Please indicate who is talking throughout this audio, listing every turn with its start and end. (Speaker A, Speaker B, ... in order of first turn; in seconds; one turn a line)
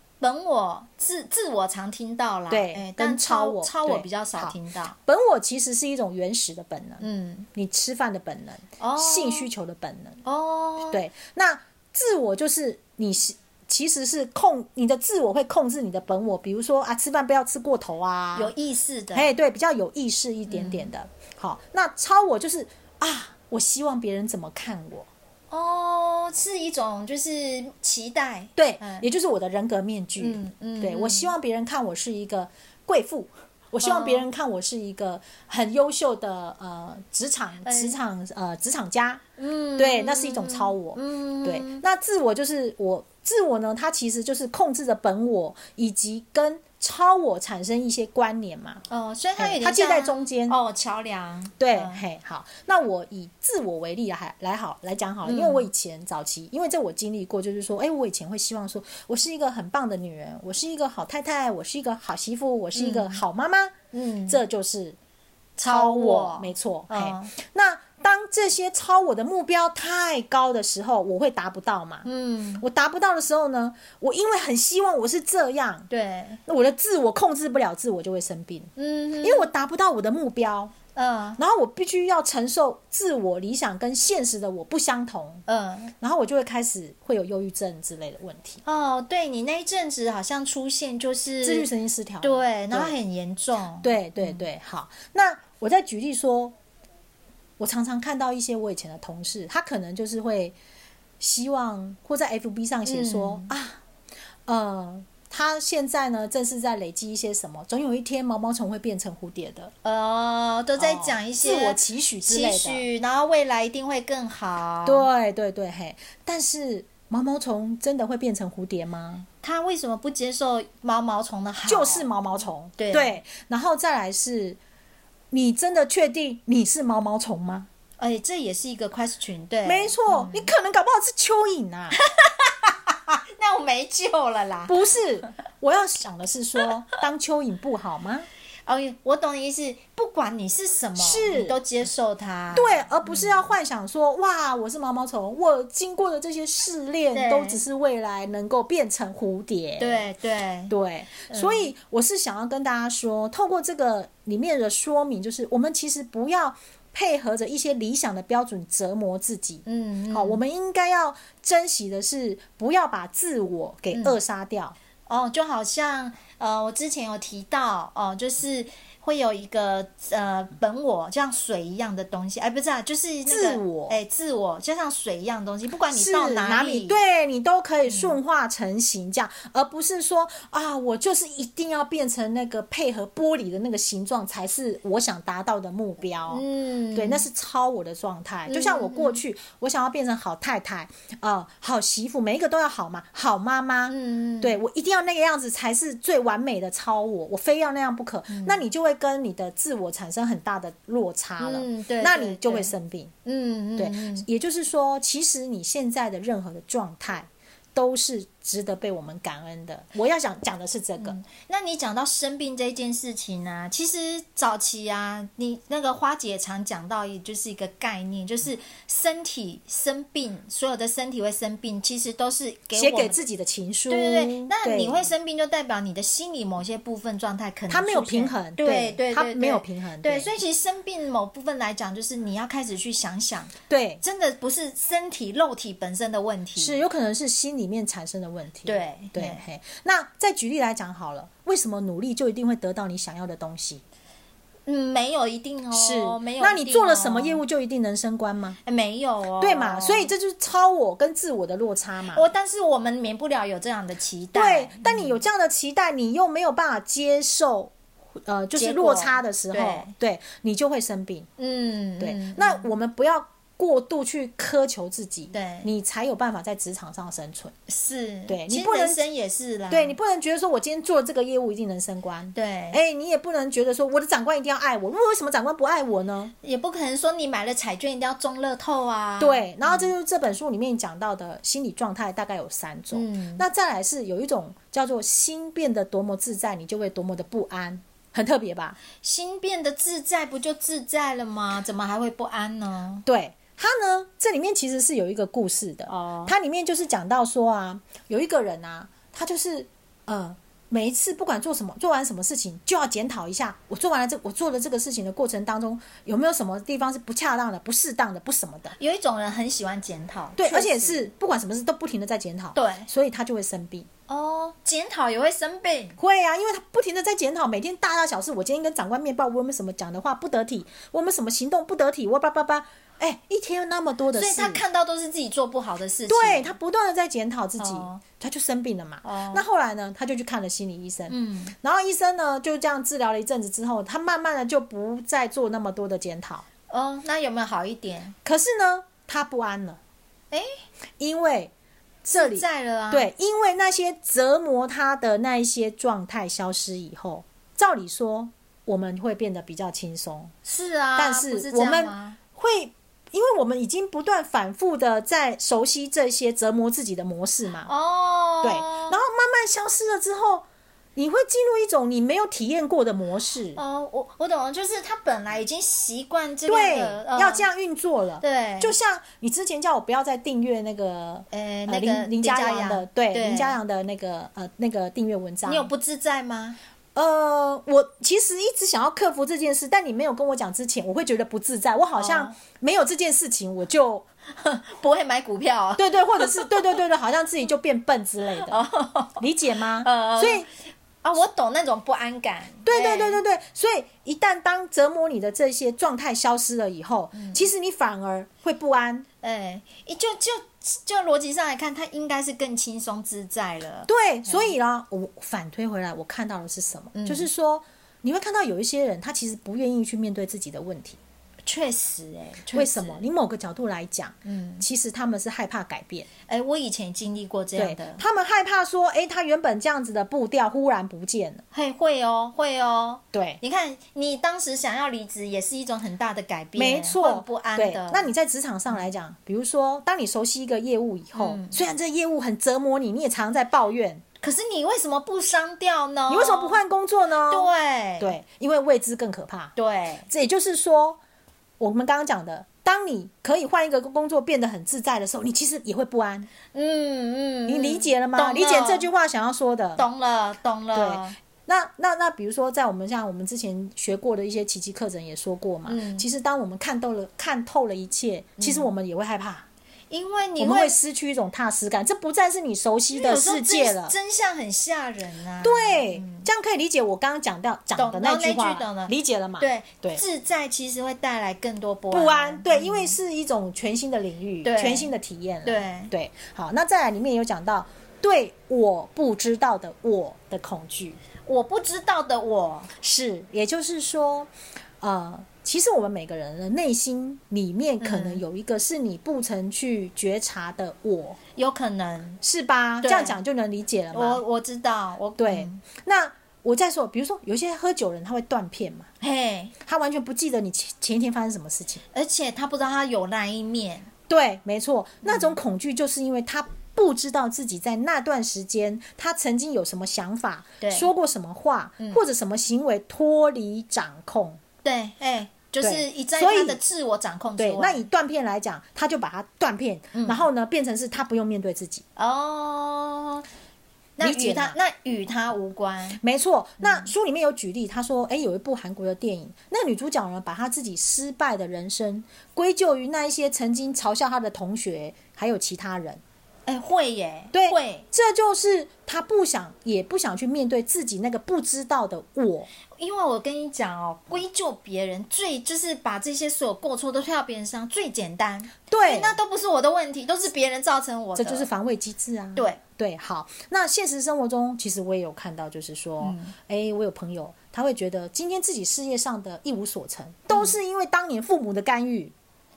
Speaker A: 0.2-4.9
Speaker B: 2.5-10.2
Speaker A: 7.0-7.5
Speaker A: 8.8-9.5
Speaker A: 10.2-11.0
Speaker B: 10.9-18.5
Speaker A: 18.3-19.3
Speaker B: 19.1-25.1
Speaker A: 20.5-20.9
Speaker A: 25.5-29.1
Speaker B: 28.6-39.2
Speaker A: 30.2-31.3
Speaker A: 33.8-34.3
Speaker A: 37.6-38.0
Speaker A: 39.4-41.8
Speaker B: 39.8-48.8
Speaker A: 48.9-52.0
Speaker B: 49.4-50.6
Speaker B: 51.6-63.8
Speaker A: 55.2-55.7
Speaker A: 62.7-63.2
Speaker A: 63.9-64.4
Speaker B: 64.3-65.0
Speaker A: 65.6-67.3
Speaker B: 65.6-72.1
Speaker A: 72.0-72.6
Speaker B: 72.6-75.9
Speaker A: 75.9-76.4
Speaker B: 76.5-80.7
Speaker A: 78.8-79.5
Speaker A: 80.9-81.4
Speaker B: 81.4-85.4
Speaker A: 85.5-85.9
Speaker B: 86.0-88.6
Speaker A: 88.6-91.7
Speaker B: 91.4-93.0
Speaker A: 92.2-94.5
Speaker B: 93.8-96.5
Speaker B: 97.6-100.5
Speaker B: 101.2-103.8
Speaker A: 102.8-103.5
Speaker B: 104.5-109.7
Speaker A: 109.8-115.1
Speaker B: 110.8-112.8
Speaker B: 114.8-119.3
Speaker A: 119.4-122.1
Speaker B: 121.7-124.6
Speaker A: 122.8-123.2
Speaker B: 125.3-127.7
Speaker A: 128.0-130.5
Speaker B: 129.6-132.0
Speaker A: 132.0-134.7
Speaker B: 134.7-138.3
Speaker A: 138.7-143.5
Speaker B: 141.0-141.6
Speaker B: 142.5-150.1
Speaker A: 147.1-147.6
Speaker A: 149.8-150.7
Speaker B: 150.7-164.8
Speaker A: 151.3-151.7
Speaker A: 159.7-160.4
Speaker A: 163.9-164.2
Speaker A: 165.1-177.0
Speaker B: 173.3-174.0
Speaker B: 175.9-203.1
Speaker A: 177.9-178.1
Speaker A: 186.3-187.2
Speaker A: 188.4-189.2
Speaker A: 193.9-194.6
Speaker A: 198.3-198.6
Speaker A: 201.4-202.7
Speaker A: 203.2-204.3
Speaker B: 203.8-211.2
Speaker A: 211.0-223.2
Speaker B: 222.7-225.1
Speaker A: 223.9-236.8
Speaker B: 227.7-230.3
Speaker B: 233.7-234.0
Speaker B: 236.6-243.8
Speaker A: 238.7-239.4
Speaker A: 244.7-247.4
Speaker B: 245.7-248.6
Speaker A: 248.6-250.1
Speaker B: 249.4-252.2
Speaker A: 252.1-255.2
Speaker B: 254.3-261.3
Speaker A: 258.5-259.9
Speaker A: 261.4-262.7
Speaker B: 262.0-267.5
Speaker A: 265.3-265.7
Speaker A: 267.7-269.9
Speaker B: 268.3-269.0
Speaker B: 269.7-276.3
Speaker A: 272.3-272.8
Speaker A: 276.4-279.9
Speaker B: 279.2-288.8
Speaker A: 282.9-283.4
Speaker A: 289.0-293.1
Speaker B: 293.1-308.8
Speaker A: 295.9-296.3
Speaker A: 308.7-311.0
Speaker B: 310.4-313.9
Speaker A: 312.5-312.9
Speaker A: 314.1-316.0
Speaker B: 316.0-324.6
Speaker A: 324.1-326.5
Speaker B: 326.1-336.4
Speaker A: 327.6-328.0
Speaker A: 329.0-329.4
Speaker A: 331.1-331.5
Speaker A: 336.7-338.1
Speaker B: 338.2-339.8
Speaker A: 340.3-340.6
Speaker B: 341.0-341.5
Speaker B: 342.0-350.3
Speaker A: 342.1-343.1
Speaker A: 350.4-352.2
Speaker B: 350.9-357.7
Speaker A: 357.6-359.0
Speaker B: 358.4-360.4
Speaker B: 360.9-363.6
Speaker A: 363.5-367.5
Speaker B: 366.5-375.7
Speaker A: 368.2-368.7
Speaker A: 371.3-373.6
Speaker A: 375.4-376.6
Speaker B: 376.9-384.0
Speaker A: 381.9-382.4
Speaker A: 384.3-386.7
Speaker B: 385.8-388.6
Speaker A: 388.4-389.2
Speaker B: 389.2-390.5
Speaker A: 389.8-390.5
Speaker A: 391.0-393.2
Speaker B: 392.6-399.1
Speaker A: 397.1-397.4
Speaker A: 399.2-404.5
Speaker B: 403.9-411.0
Speaker A: 406.9-407.3
Speaker A: 411.4-413.1
Speaker B: 412.5-416.1
Speaker A: 414.2-414.6
Speaker A: 416.3-418.0
Speaker B: 417.6-421.4
Speaker A: 421.5-428.1
Speaker B: 423.1-423.4
Speaker B: 426.6-434.0
Speaker A: 431.1-431.6
Speaker A: 434.2-436.6
Speaker B: 436.1-439.5
Speaker A: 437.3-438.1
Speaker A: 439.6-440.1
Speaker B: 440.1-441.0
Speaker B: 441.6-446.3
Speaker A: 446.5-448.9
Speaker B: 447.5-449.9
Speaker A: 449.8-451.2
Speaker B: 450.7-459.4
Speaker A: 455.7-456.1
Speaker A: 458.4-458.7
Speaker A: 459.9-460.8
Speaker B: 460.4-463.9
Speaker A: 462.9-466.3
Speaker B: 465.4-470.0
Speaker A: 467.8-473.0
Speaker B: 471.9-481.0
Speaker A: 474.4-474.9
Speaker A: 475.4-475.9
Speaker A: 481.2-482.7
Speaker B: 482.8-484.3
Speaker B: 484.8-491.2
Speaker A: 487.8-488.2
Speaker A: 491.3-492.2
Speaker B: 492.2-494.2
Speaker A: 492.8-493.2
Speaker A: 493.9-495.6
Speaker B: 495.2-498.9
Speaker A: 499.0-499.5
Speaker B: 499.6-501.8
Speaker A: 501.9-503.9
Speaker B: 504.1-514.4
Speaker A: 505.0-505.3
Speaker A: 510.6-510.9
Speaker A: 514.6-517.8
Speaker B: 515.6-516.6
Speaker B: 517.4-521.8
Speaker A: 519.9-520.3
Speaker A: 522.0-523.2
Speaker A: 524.0-526.0
Speaker B: 524.0-524.6
Speaker B: 526.0-536.0
Speaker A: 526.6-526.9
Speaker A: 536.5-537.9
Speaker B: 537.3-542.5
Speaker A: 542.8-551.5
Speaker B: 548.7-549.2
Speaker B: 551.1-562.1
Speaker A: 556.0-556.3